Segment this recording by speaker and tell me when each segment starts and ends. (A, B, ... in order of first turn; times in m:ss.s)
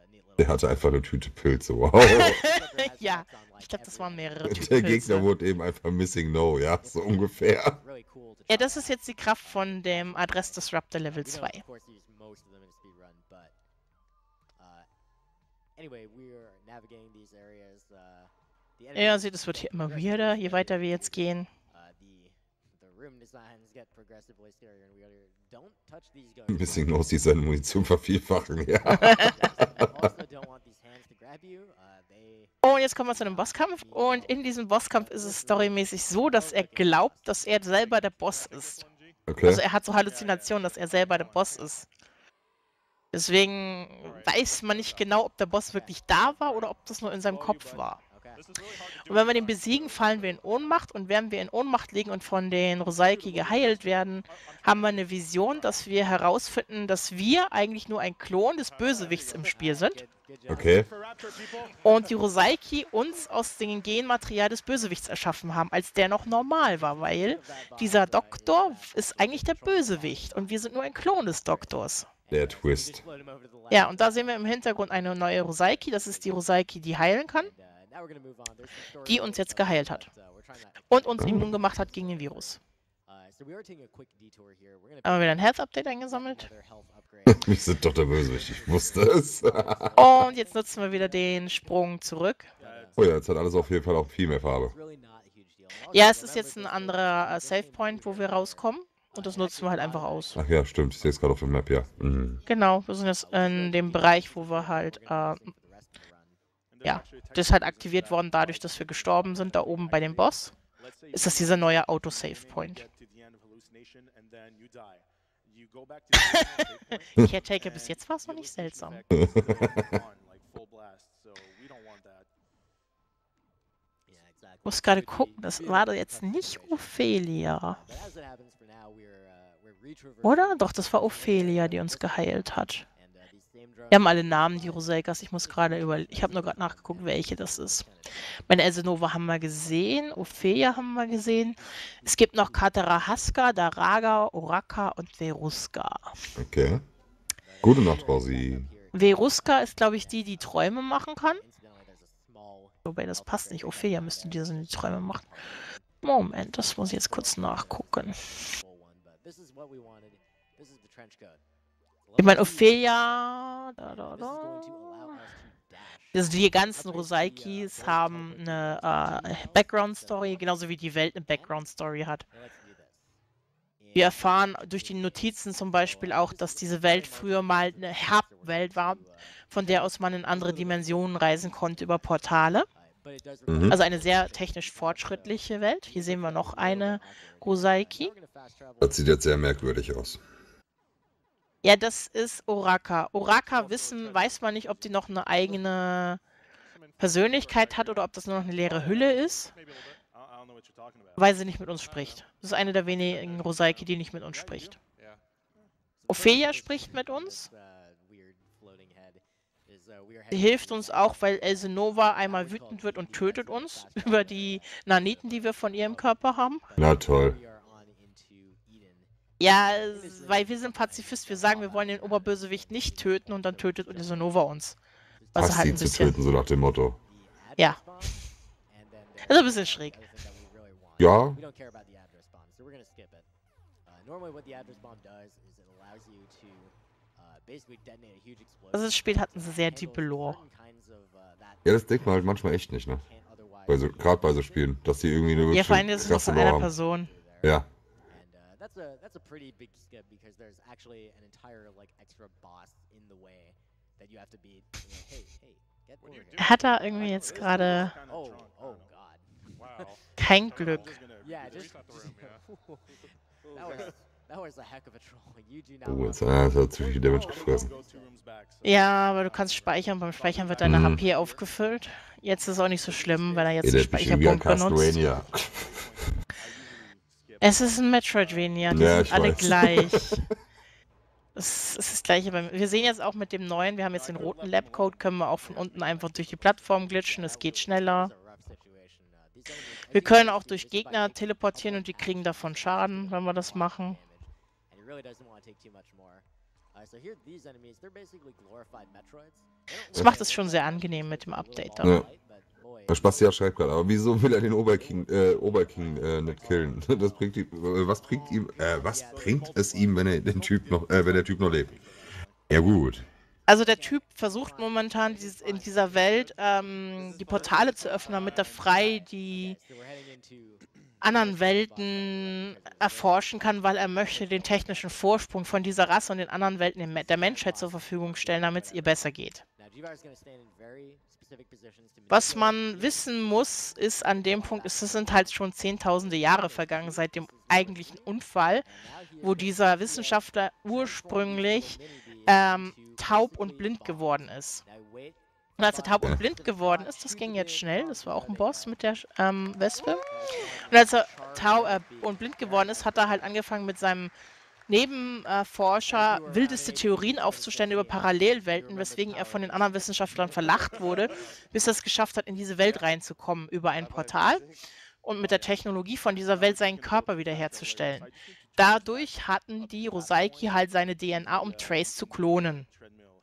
0:00.4-0:02.4 A
0:02.0-0:05.3 B
0:04.5-0:07.8 A
0:08.5-0:11.6 B
0:18.9-0:21.5 B
0:26.5-0:30.1 A
0:32.6-0:38.8 B
0:38.8-0:39.2 C
0:39.3-0:39.6 A
0:39.4-0:41.8 B
0:43.1-0:48.0 B
0:48.3-0:49.3 C
0:49.0-1:00.0 B
1:00.5-1:00.9 A
1:01.8-1:12.1 B
1:12.3-1:13.0 A
1:13.7-1:17.5 B
1:19.0-1:20.1 B
1:20.9-1:22.6 B
1:25.0-1:26.5 B
1:27.2-1:30.0 A
1:30.0-1:32.5 B
1:33.0-1:34.7 A
1:35.9-1:40.4 B
1:40.3-1:42.4 A
1:42.5-1:45.5 B
1:46.8-1:50.5 B
1:51.1-1:52.8 B
1:56.2-1:59.0 B
1:59.1-2:00.0 A
2:04.6-2:07.8 B
2:10.2-2:12.8 B
2:13.9-2:17.9 B
2:18.5-2:26.2 B
2:26.4-2:26.8 A
2:27.6-2:28.7 A
2:28.9-2:31.4 B
2:32.8-2:38.4 B
2:42.2-2:45.3 B
2:46.1-2:52.2 B
2:53.9-3:02.7 B
3:03.5-3:03.8 A
3:03.7-3:08.1 B
3:08.8-3:10.2 A
3:11.6-3:16.2 B
3:16.7-3:17.0 C
3:17.0-3:19.5 B
3:19.5-3:20.0 C
3:21.2-3:24.8 B
3:26.1-3:27.5 B
3:30.3-3:36.7 B
3:36.8-3:37.4 A
3:39.4-3:44.8 B
3:45.3-3:46.2 B
3:45.4-3:47.0 A
3:47.6-3:48.2 B
3:49.2-3:50.0 B
3:51.0-3:51.4 A
3:58.7-4:00.4 B
4:01.6-4:03.0 A
4:03.7-4:06.7 A
4:05.5-4:07.1 B
4:16.0-4:16.6 C
4:16.4-4:18.0 B
4:19.6-4:22.4 C
4:20.2-4:21.0 B
4:23.0-4:24.0 C
4:25.8-4:27.7 A
4:28.6-4:35.0 B
4:30.6-4:31.0 A
4:33.6-4:36.1 A
4:37.4-4:40.2 B
4:38.7-4:40.2 A
4:41.3-4:48.1 B
4:49.9-4:54.0 B
4:59.9-5:02.0 B
5:01.8-5:02.1 A
5:02.9-5:11.8 A
5:12.5-5:13.1 A
5:13.5-5:19.6 B
5:21.0-5:29.4 B
5:32.1-5:38.7 B
5:39.2-5:44.6 B
5:45.6-5:50.0 B
5:50.6-5:54.1 B
5:54.7-6:04.5 B
6:05.0-6:12.7 B